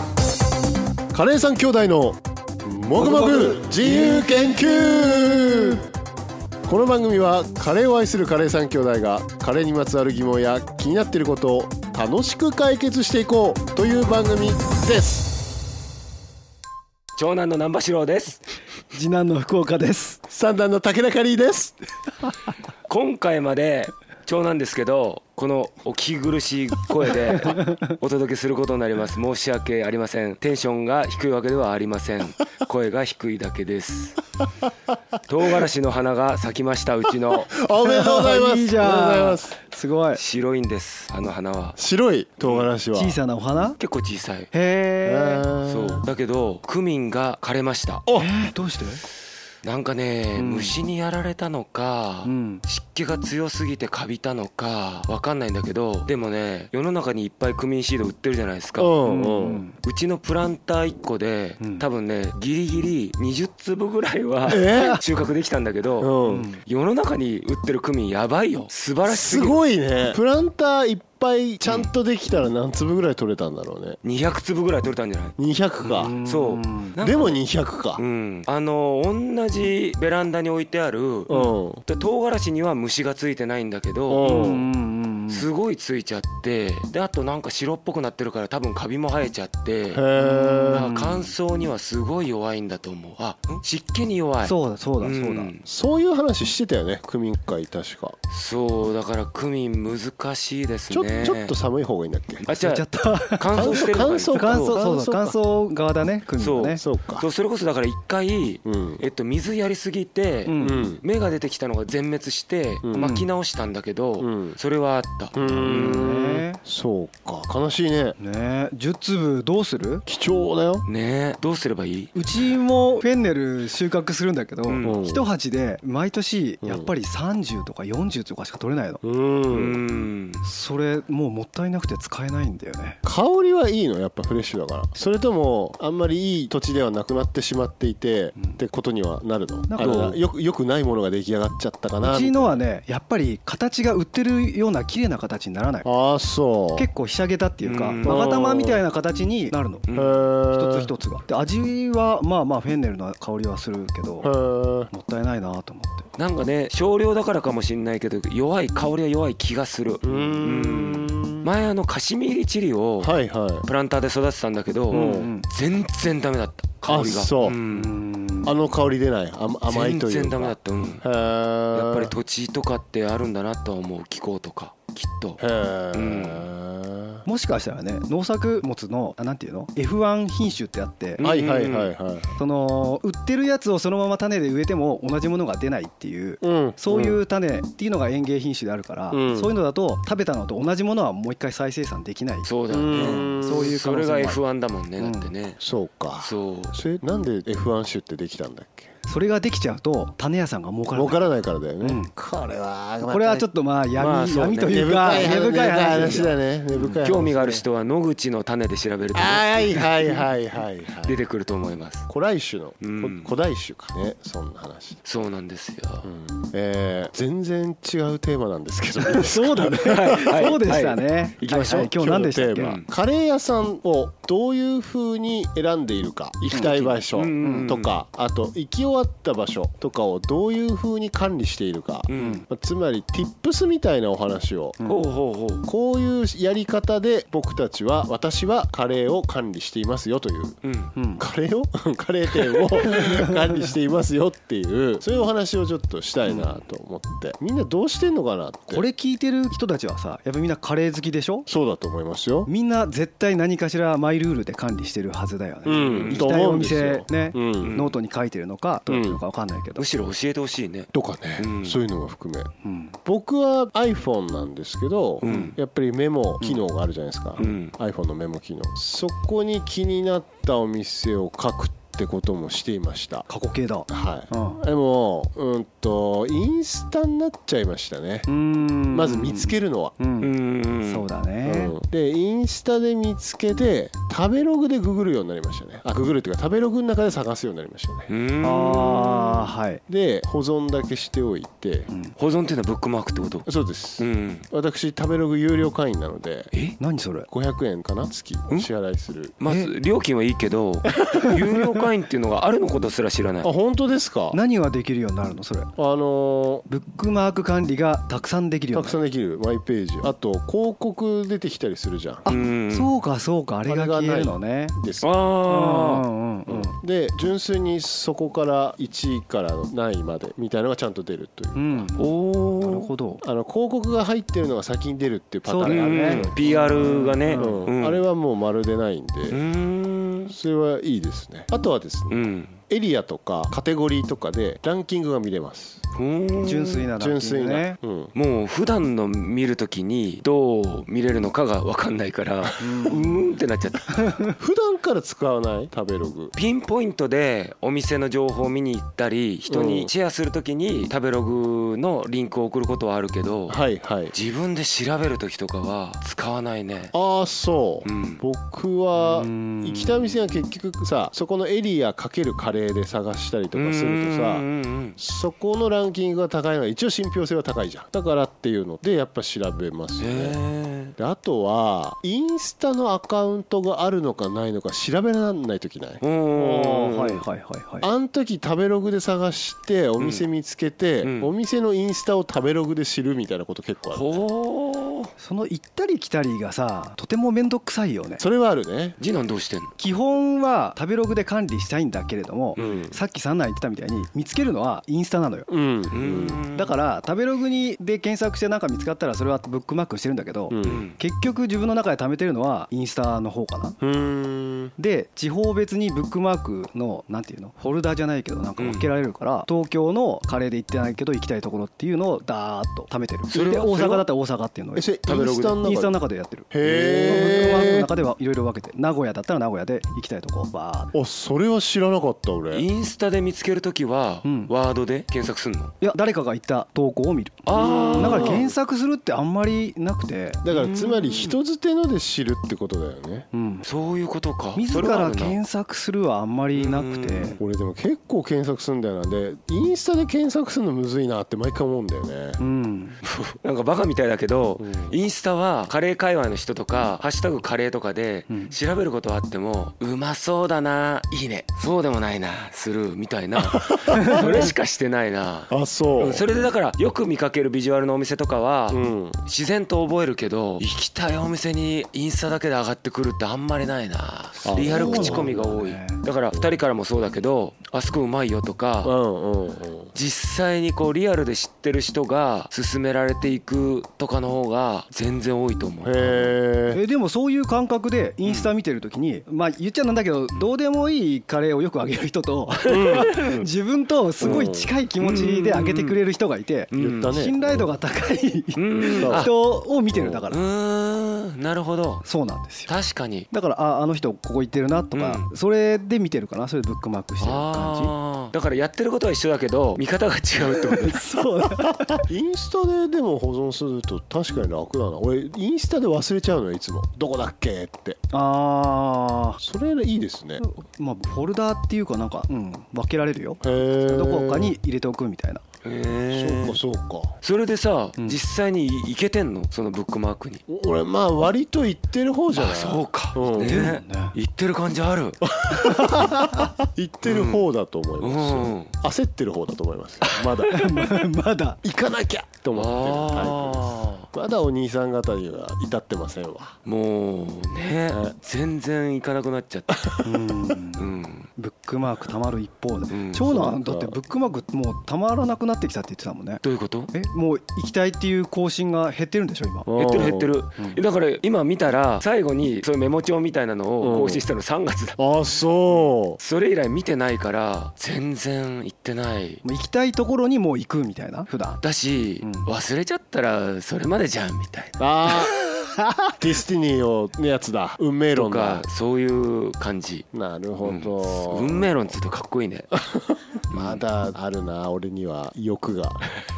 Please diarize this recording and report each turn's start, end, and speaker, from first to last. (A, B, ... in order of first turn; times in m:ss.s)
0:01.1-0:05.9 A
0:06.7-0:15.4 A
0:17.2-0:18.4 B
0:18.9-0:20.2 C
0:20.3-0:21.8 A
0:22.9-0:34.2 B
0:35.3-0:37.5 B
0:37.5-0:39.6 A
0:37.8-0:40.2 C
0:40.1-0:41.8 B
0:41.8-0:43.2 A
0:42.4-0:42.7 B
0:42.9-0:43.8 C
0:43.8-0:44.5 B
0:44.5-0:45.5 C
0:45.0-0:46.1 A
0:45.7-0:48.1 B
0:48.1-0:48.3 A
0:48.2-0:49.0 C
0:49.6-0:58.9 B
0:50.4-0:50.8 C
0:52.2-0:52.6 C
0:58.8-0:59.6 A
0:59.0-0:59.8 C
0:59.8-1:09.6 B
1:01.6-1:01.8 C
1:04.5-1:05.0 A
1:04.5-1:05.0 C
1:06.0-1:06.5 A
1:06.2-1:06.6 C
1:09.0-1:14.0 A
1:14.0-1:15.4 B
1:15.4-1:16.2 A
1:15.9-1:17.0 C
1:16.1-1:17.4 B
1:17.0-1:18.0 A
1:18.0-1:24.4 B
1:21.3-1:21.8 A
1:24.1-1:24.7 A
1:24.2-1:25.5 C
1:25.3-1:30.0 B
1:29.9-1:30.9 A
1:30.2-1:31.3 C
1:30.7-1:35.7 B
1:34.4-1:35.5 C
1:35.6-1:38.2 A
1:38.3-1:41.6 B
1:40.9-1:42.5 A
1:42.4-1:44.8 B
1:42.5-1:43.8 C
1:43.5-1:45.4 A
1:44.3-1:46.8 C
1:46.4-1:56.4 B
1:46.8-1:47.3 A
1:48.6-1:49.0 A
1:50.5-1:50.8 C
1:50.6-1:51.0 A
1:52.8-1:53.2 A
1:52.9-1:53.3 C
1:54.2-1:54.6 A
1:55.3-1:58.2 A
1:55.4-1:56.6 C
1:58.2-2:00.0 C
2:00.1-2:00.9 A
2:00.9-2:02.1 B
2:02.1-2:09.0 C
2:04.7-2:05.0 B
2:04.8-2:05.3 A
2:06.6-2:06.9 A
2:09.0-2:09.8 A
2:09.5-2:10.4 B
2:10.4-2:13.0 C
2:13.0-2:22.6 A
2:19.7-2:20.2 C
2:19.8-2:20.2 B
2:22.0-2:25.9 C
2:25.8-2:26.9 A
2:26.8-2:29.9 C
2:27.6-2:28.3 B
2:28.0-2:28.8 A
2:29.9-2:30.3 B
2:29.9-2:30.9 A
2:30.5-2:34.3 C
2:34.2-2:34.9 A
2:34.9-2:36.1 C
2:36.2-2:47.9 B
2:40.0-2:41.5 A
2:43.0-2:43.7 A
2:44.9-2:45.5 C
2:44.9-2:45.3 A
2:46.9-2:47.6 A
2:47.7-2:48.6 C
2:48.4-2:52.1 A
2:49.7-2:51.0 B
2:51.7-2:55.4 B
2:55.4-2:57.2 A
2:55.9-2:56.5 B
2:57.3-3:01.2 C
3:01.2-3:01.9 B
3:01.2-3:02.4 A
3:02.4-3:14.4 C
3:06.4-3:07.2 A
3:09.1-3:09.5 A
3:12.4-3:15.6 B
3:12.7-3:13.7 A
3:15.0-3:15.3 C
3:15.6-3:18.9 A
3:16.2-3:16.8 B
3:19.1-3:21.2 C
3:20.9-3:23.5 A
3:21.8-3:22.1 C
3:23.1-3:27.0 C
3:24.0-3:24.7 B
3:24.5-3:27.6 A
3:27.0-3:30.3 B
3:29.1-3:31.2 A
3:31.0-3:32.1 B
3:32.1-3:35.0 A
3:32.8-3:33.3 B
3:35.0-3:36.1 B
3:36.0-3:40.4 A
3:39.0-3:42.8 C
3:39.8-3:41.9 B
3:41.7-3:54.8 A
3:42.6-3:42.9 B
3:46.5-3:48.0 B
3:47.4-3:47.8 C
3:52.1-3:52.4 B
3:52.1-3:52.4 C
3:54.8-3:55.1 C
3:54.9-3:55.7 B
3:55.7-4:00.6 A
4:00.6-4:00.9 B
4:01.0-4:01.2 C
4:01.2-4:08.9 A
4:02.9-4:03.4 C
4:06.2-4:06.6 C
4:08.7-4:11.5 C
4:11.5-4:12.5 A
4:12.5-4:19.9 C
4:15.7-4:17.8 A
4:15.8-4:16.3 B
4:17.6-4:18.0 B
4:18.9-4:19.2 A
4:19.8-4:21.8 B
4:20.9-4:22.5 A
4:22.6-4:23.0 C
4:23.0-4:33.3 A
4:25.2-4:25.6 B
4:26.4-4:26.7 C
4:27.4-4:27.7 B
4:33.3-4:34.6 C
4:33.9-4:38.3 A
4:38.3-4:40.3 C
4:38.9-4:40.0 A
4:40.2-4:41.1 B
4:40.8-4:41.8 C
4:41.4-4:48.1 A
4:48.1-4:49.5 B
4:48.4-4:49.8 C
4:49.9-4:51.9 A
4:51.9-4:52.2 C
4:52.2-4:54.5 B
4:53.5-4:56.5 A
4:56.8-4:57.3 C
4:57.3-4:59.4 A
4:59.4-5:03.5 B
4:59.4-4:59.7 C
5:03.4-5:04.4 A
5:04.3-5:05.7 C
5:05.8-5:06.6 A
5:06.7-5:09.0 C
5:08.7-5:12.3 A
5:12.2-5:14.8 C
5:12.3-5:12.9 B
5:13.7-5:15.1 A
5:15.0-5:16.1 B
5:15.5-5:16.8 C
5:16.5-5:21.9 A
5:21.6-5:22.0 C
5:22.0-5:22.9 B
5:22.6-5:23.2 C
5:23.2-5:29.4 A
5:25.4-5:27.6 C
5:25.7-5:28.0 B
5:29.3-5:30.3 B
5:30.3-5:35.8 A
5:32.1-5:32.6 B
5:35.9-5:36.9 B
5:36.4-5:37.8 C
5:37.0-5:38.1 A
5:38.1-5:44.1 B
5:42.6-5:43.1 C
5:44.4-5:46.3 A
5:46.4-5:53.6 B
5:49.5-5:49.9 A
5:53.5-5:54.1 A
5:54.1-5:56.9 B
5:56.9-6:04.5 A
5:57.8-5:58.2 B
5:58.9-6:00.3 C
6:03.5-6:05.0 B
6:05.0-6:10.4 A
6:10.0-6:10.9 B
6:11.0-6:17.2 A
6:16.0-6:16.8 B
6:16.6-6:17.9 C
6:17.8-6:24.2 A
6:20.0-6:20.2 B
6:21.0-6:21.3 B
6:23.9-6:25.1 B
6:25.2-6:28.2 C
6:28.2-6:29.0 A
6:29.0-6:29.7 B
6:29.8-6:35.5 C
6:32.6-6:33.0 A
6:35.5-6:36.4 A
6:35.9-6:36.8 B
6:36.5-6:43.8 C
6:40.5-6:40.8 A
6:40.6-6:41.0 B
6:43.8-6:44.7 A
6:44.8-7:00.9 C
6:48.6-6:48.9 B
6:53.3-6:54.1 B
6:54.8-6:56.0 A
6:56.5-6:57.9 A
7:00.9-7:02.7 A
7:02.5-7:05.7 B
7:04.2-7:04.5 C
7:05.8-7:10.4 C
7:07.4-7:08.5 B
7:07.5-7:08.5 A
7:10.4-7:13.3 A
7:10.5-7:11.4 B
7:13.3-7:13.7 C
7:13.6-7:15.4 B
7:14.6-7:17.4 C
7:16.5-7:17.4 B
7:17.4-7:22.4 A
7:22.4-7:23.0 C
7:23.0-7:49.0 B
7:24.6-7:25.0 A
7:28.3-7:28.5 C
7:33.4-7:34.5 A
7:35.5-7:36.3 A
7:38.7-7:39.2 A
7:44.4-7:45.5 A
7:44.6-7:46.0 C
7:48.8-7:49.9 A
7:49.9-7:56.4 B
7:55.8-7:56.8 A
7:56.7-8:10.4 C
7:58.2-7:58.5 B
8:02.7-8:03.2 A
8:02.8-8:03.5 B
8:04.2-8:04.5 B
8:04.2-8:04.8 A
8:05.0-8:06.0 B
8:06.7-8:07.2 B
8:06.7-8:07.7 A
8:08.6-8:09.3 B
8:09.0-8:09.3 A
8:09.9-8:10.2 A
8:10.3-8:12.1 B
8:12.0-8:12.7 C
8:12.7-8:13.3 B
8:13.3-8:17.9 C
8:14.9-8:15.3 B
8:17.2-8:21.0 B
8:20.4-8:22.0 C
8:22.1-8:28.0 A
8:28.1-8:29.4 C
8:29.4-8:30.4 A
8:30.4-8:35.4 C
8:33.4-8:34.6 A
8:35.6-8:36.6 B
8:36.1-8:37.2 A
8:37.2-8:40.4 B
8:40.5-8:43.7 A
8:42.3-8:45.2 B
8:43.4-8:44.2 C
8:45.2-8:51.1 A
8:47.0-8:47.5 B
8:48.0-8:48.7 B
8:50.5-8:51.6 C
8:51.6-8:56.6 A
8:52.5-8:54.1 B
8:56.6-8:59.9 B
8:57.9-8:58.2 A
8:59.7-9:00.0 A
9:00.0-9:09.7 C
9:00.8-9:01.3 B
9:02.9-9:03.3 B
9:03.2-9:04.0 A
9:06.4-9:06.9 B
9:09.7-9:10.3 A
9:09.8-9:15.0 B
9:13.8-9:14.3 A
9:15.0-9:16.2 A
9:15.7-9:19.4 B
9:19.4-9:21.6 C
9:21.6-9:24.8 B
9:22.2-9:22.5 C
9:24.8-9:25.4 A
9:25.6-9:26.1 C
9:26.2-9:28.7 A
9:28.2-9:30.1 B
9:30.1-9:31.9 A
9:30.6-9:32.7 B
9:32.8-9:36.1 A
9:33.5-9:33.8 B